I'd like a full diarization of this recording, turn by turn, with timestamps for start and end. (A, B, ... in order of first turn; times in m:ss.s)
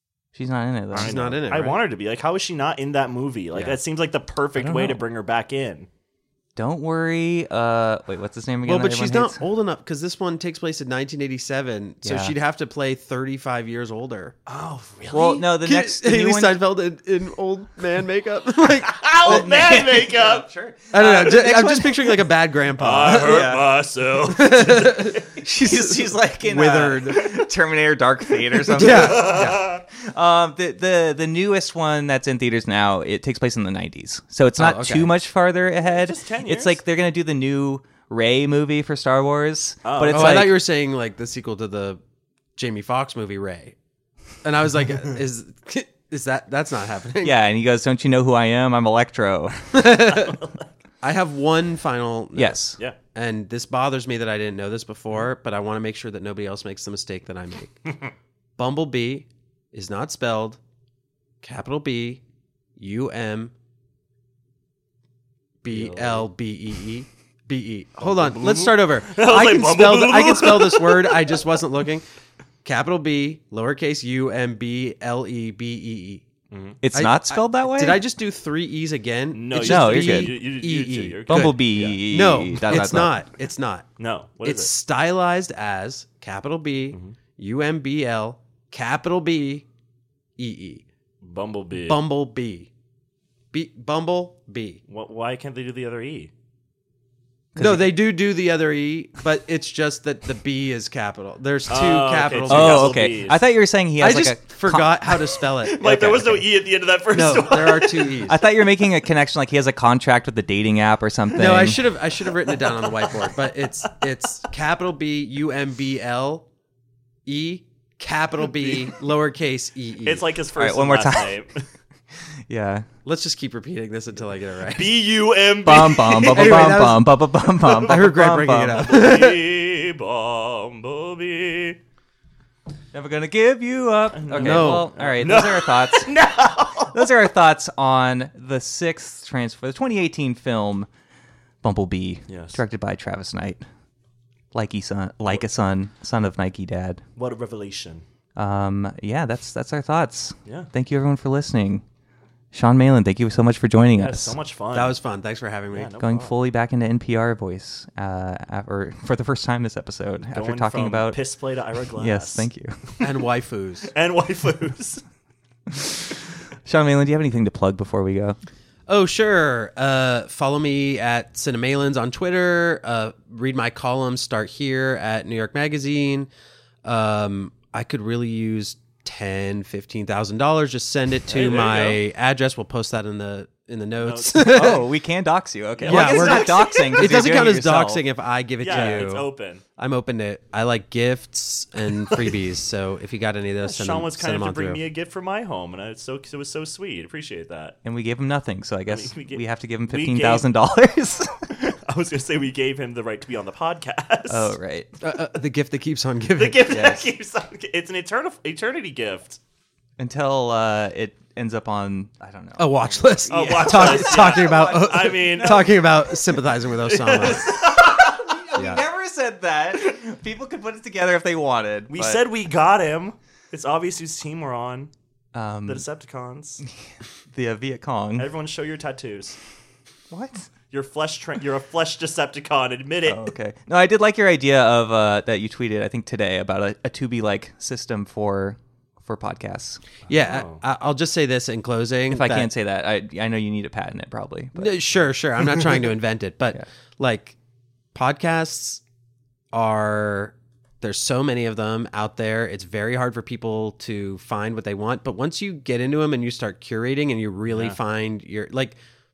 0:00.3-0:01.3 A
0:00.9-0:05.9 B
0:01.0-0:01.8 C
0:03.5-0:03.8 C
0:04.6-0:05.0 A
0:06.6-0:09.4 A
0:08.6-0:14.4 C
0:12.0-0:12.3 A
0:14.5-0:15.5 B
0:15.1-0:16.6 A
0:15.4-0:19.5 C
0:18.8-0:20.5 B
0:19.2-0:22.2 A
0:20.9-0:23.5 C
0:22.8-0:25.2 B
0:23.2-0:23.6 A
0:24.3-0:27.4 C
0:25.4-0:40.6 A
0:28.7-0:29.8 B
0:28.7-0:29.7 C
0:34.6-0:35.1 C
0:35.8-0:36.8 B
0:39.8-0:40.5 B
0:40.0-0:42.0 C
0:42.6-0:43.8 C
0:44.4-0:47.4 C
0:47.2-0:49.6 A
0:49.7-0:50.4 C
0:50.0-0:50.7 B
0:51.0-0:57.8 C
0:52.4-0:52.8 A
0:58.6-1:00.6 C
1:01.4-1:02.2 C
1:02.8-1:03.5 C
1:05.6-1:12.1 C
1:05.7-1:06.3 B
1:08.0-1:11.5 B
1:12.6-1:16.3 C
1:16.5-1:16.8 B
1:16.8-1:18.0 A
1:16.9-1:23.9 C
1:19.3-1:22.0 B
1:19.5-1:20.4 A
1:21.3-1:23.1 A
1:24.0-1:24.7 B
1:24.4-1:29.7 C
1:30.4-1:30.8 C
1:31.2-1:32.0 B
1:31.9-1:32.7 C
1:33.5-1:34.8 C
1:34.9-1:36.3 B
1:37.5-1:37.9 A
1:37.6-1:43.1 C
1:41.7-1:43.4 B
1:42.5-1:45.0 A
1:44.0-1:46.5 C
1:45.6-1:48.2 B
1:47.1-1:48.4 C
1:48.2-1:51.9 A
1:51.3-1:56.5 C
1:52.5-1:53.6 B
1:57.3-2:00.3 C
2:00.0-2:01.6 B
2:00.6-2:01.4 A
2:02.5-2:02.9 A
2:03.0-2:04.9 C
2:04.6-2:06.7 B
2:05.6-2:08.9 A
2:06.0-2:09.4 C
2:08.7-2:11.8 B
2:12.9-2:16.1 A
2:14.1-2:17.1 B
2:14.4-2:14.9 C
2:16.8-2:20.9 A
2:21.6-2:23.6 A
2:22.3-2:22.6 B
2:24.5-2:27.0 A
2:27.2-2:28.0 B
2:28.4-2:31.8 A
2:30.4-2:30.7 B
2:32.5-2:34.4 A
2:34.0-2:35.0 B
2:34.7-2:35.9 C
2:35.7-2:36.3 B
2:36.0-2:41.2 A
2:40.3-2:42.5 B
2:42.0-2:42.8 A
2:43.0-2:43.9 C
2:43.9-2:45.0 B
2:45.7-2:48.4 A
2:48.9-2:56.3 C
2:56.8-3:04.8 C
3:01.3-3:02.0 B
3:04.0-3:04.8 B
3:04.3-3:08.0 A
3:05.8-3:07.2 B
3:05.9-3:14.8 C
3:08.6-3:09.6 B
3:08.7-3:09.1 A
3:13.6-3:17.8 B
3:17.8-3:21.6 A
3:18.9-3:20.5 B
3:21.6-3:24.5 B
3:24.3-3:24.9 A
3:25.0-3:27.1 C
3:26.4-3:29.4 B
3:30.0-3:35.7 A
3:32.6-3:37.6 C
3:33.3-3:35.8 B
3:36.9-3:37.6 B
3:37.1-3:42.2 A
3:38.6-3:38.8 C
3:41.9-3:44.9 B
3:45.3-3:45.9 A
3:45.7-3:46.6 B
3:47.3-3:48.3 A
3:48.2-3:49.4 B
3:50.1-3:50.5 A
3:50.7-3:53.2 B
3:53.1-3:59.8 A
4:00.1-4:02.5 C
4:00.2-4:00.6 B
4:02.1-4:04.8 A
4:04.6-4:07.4 C
4:07.9-4:08.8 C
4:09.5-4:18.8 C
4:17.5-4:17.8 B